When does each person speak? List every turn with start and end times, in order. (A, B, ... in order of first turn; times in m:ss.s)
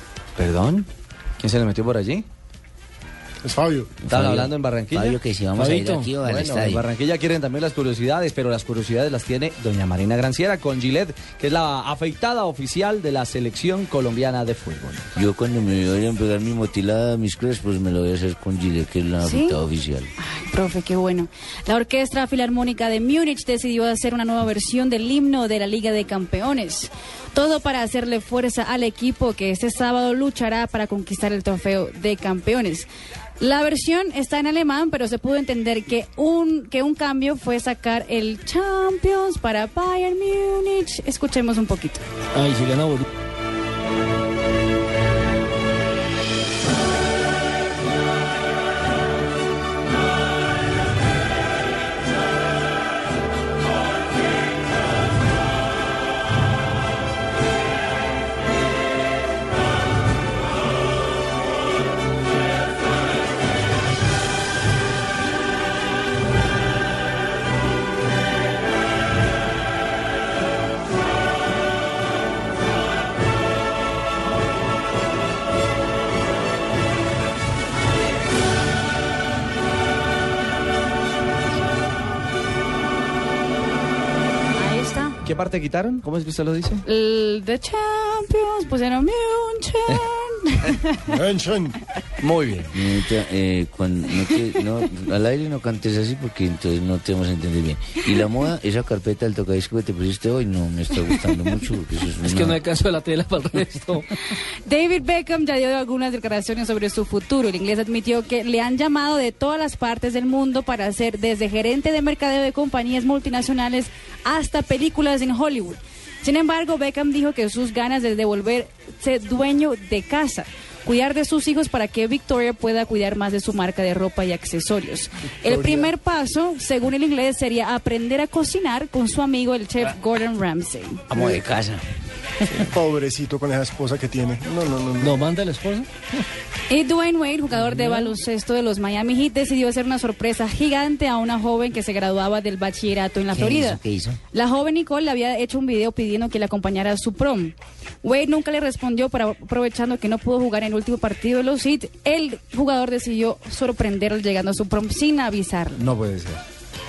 0:00.4-0:00.9 A
0:01.4-0:02.2 A
0:03.4-0:03.9 B
0:04.0-0:06.8 C
0:04.1-0:05.2 A
0:05.5-0:06.1 D
0:06.2-0:15.1 A
0:15.2-0:20.1 C
0:19.2-0:19.6 E
0:20.2-0:32.9 E
0:33.4-0:42.0 E
0:42.3-0:43.0 D
1:24.5-1:25.2 E
1:25.2-1:26.8 A
1:26.8-1:31.1 E
1:31.1-1:31.8 B
1:32.2-1:32.8 A
1:32.7-1:42.6 C
1:41.0-1:41.3 E
1:42.2-1:44.1 D
1:44.3-2:11.1 E
2:05.4-2:05.9 B
2:11.1-2:11.8 C
2:12.7-2:15.2 B
2:15.0-2:15.9 D
2:16.7-2:35.8 E
2:17.5-2:18.1 D
2:23.3-2:24.2 C
2:35.8-2:36.4 B